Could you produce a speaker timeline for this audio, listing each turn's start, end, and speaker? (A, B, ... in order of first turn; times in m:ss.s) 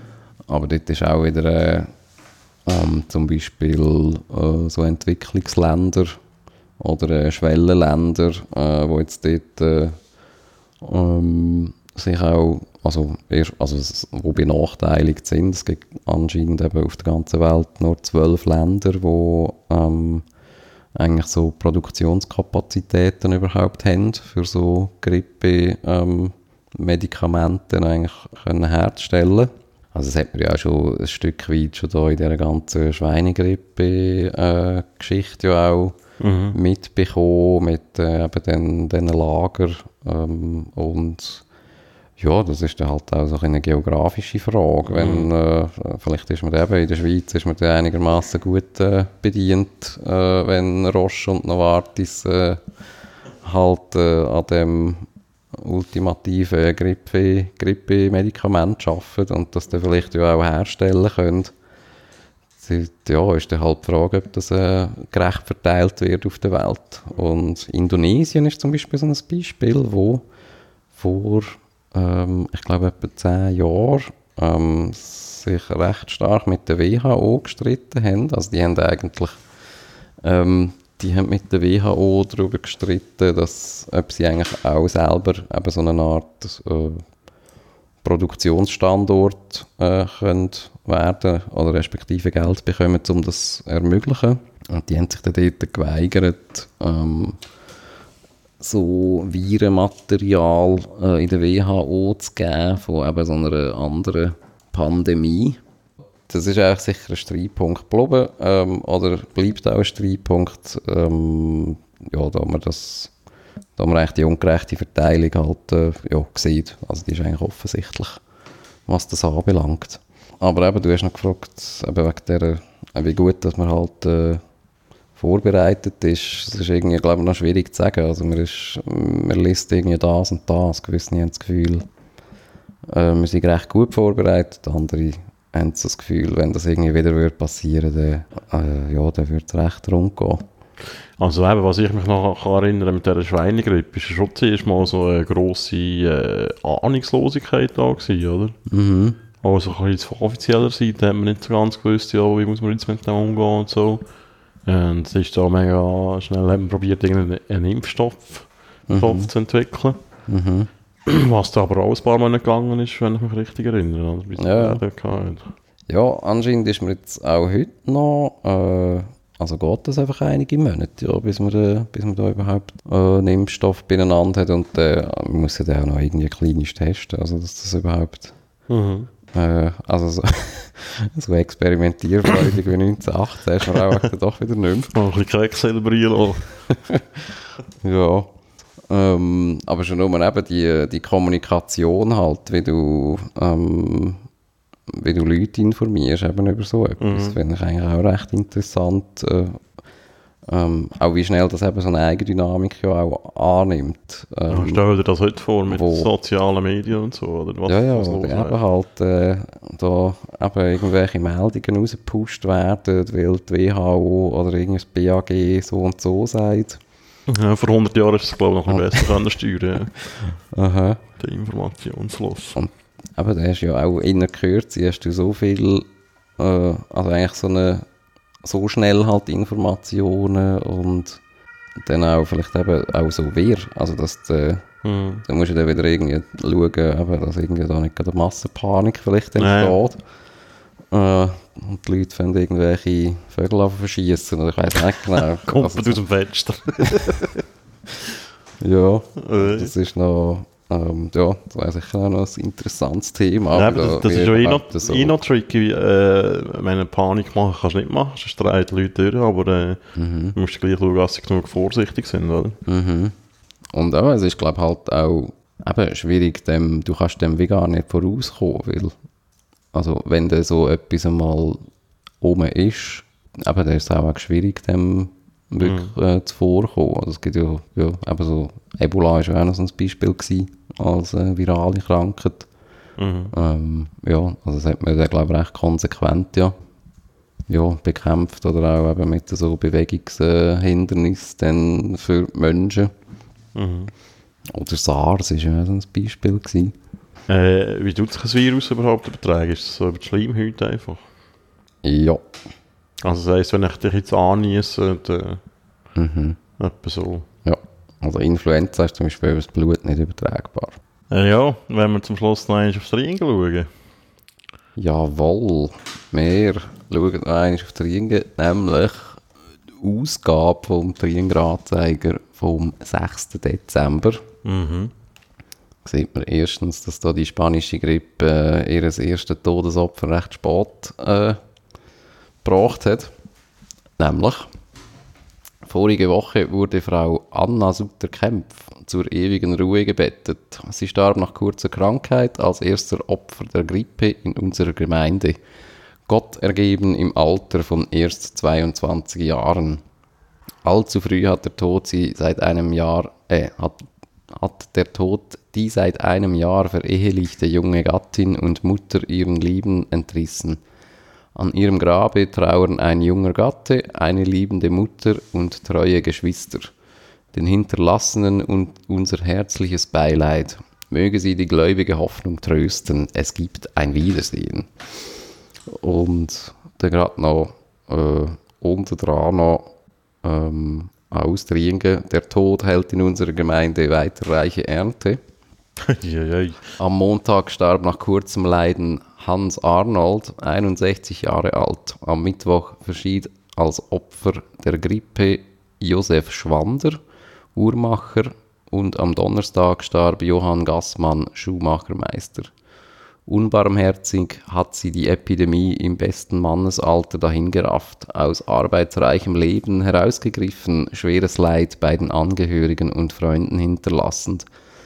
0:00.5-0:01.9 A
0:02.6-0:06.2 A
0:06.8-0:10.0 A
0:10.8-0:20.2 A
0:21.0-0:36.0 A
0:36.2-0:36.6 B
0:36.5-0:41.4 A
0:42.2-0:52.6 A
0:44.9-0:45.3 B
0:53.4-1:01.5 A
1:02.6-1:10.2 A
1:10.9-1:19.4 A
1:20.2-1:27.0 A
1:28.0-1:37.4 A
1:38.6-1:45.6 A
1:46.3-1:53.1 A
1:53.8-1:58.2 A
1:58.9-2:04.4 A
2:05.2-2:11.8 A
2:12.9-2:20.4 A
2:21.2-2:28.6 B
2:28.7-2:29.2 A
2:29.4-2:34.1 B
2:34.6-2:40.0 B
2:38.9-2:39.3 A
2:40.3-2:40.7 A
2:41.0-2:45.5 B
2:44.4-2:44.8 A
2:45.9-2:58.4 A
2:58.7-2:59.1 B
2:59.3-3:04.9 A
3:04.9-3:06.5 B
3:06.7-3:07.0 A
3:07.8-3:08.3 A
3:08.9-3:14.2 A
3:14.9-3:19.6 A
3:17.0-3:17.4 B
3:20.5-3:24.8 A
3:24.5-3:28.6 B
3:25.7-3:26.1 A
3:27.7-3:36.8 A
3:37.3-3:39.9 B
3:38.7-3:39.1 A
3:40.2-3:41.0 A
3:41.2-3:42.6 B
3:42.5-3:45.8 A
3:46.4-3:47.8 A
3:48.4-3:51.2 A
3:51.8-3:54.7 A
3:54.8-3:55.2 B
3:55.2-4:00.0 A
3:59.4-3:59.8 B
4:00.9-4:06.0 A
4:05.1-4:07.4 B
4:08.6-4:15.2 A
4:09.2-4:09.7 B
4:13.5-4:22.6 B
4:19.9-4:20.4 A
4:22.6-4:23.1 A
4:23.7-4:28.9 A
4:29.7-4:31.6 A
4:32.2-4:42.5 A
4:35.6-4:35.9 B
4:43.0-4:43.3 B
4:43.3-4:46.5 A
4:47.5-4:52.9 A
4:53.5-4:53.9 B
4:54.5-4:56.7 A
4:57.3-5:01.0 B
5:01.8-5:02.2 A
5:03.0-5:05.4 B
5:06.0-5:06.4 A
5:06.6-5:07.2 B
5:07.4-5:10.8 A
5:11.1-5:13.7 B
5:14.8-5:19.2 A
5:19.8-5:24.2 A
5:24.4-5:24.9 B
5:25.8-5:31.4 A
5:32.4-5:33.1 A
5:34.0-5:34.5 A
5:35.6-5:45.4 A
5:46.1-5:49.8 A
5:50.6-6:00.6 A
6:01.3-6:06.7 A
6:07.3-6:14.7 A
6:15.7-6:25.2 A
6:25.8-6:26.7 B
6:26.8-6:37.0 A
6:37.6-6:42.5 A
6:43.2-6:54.4 A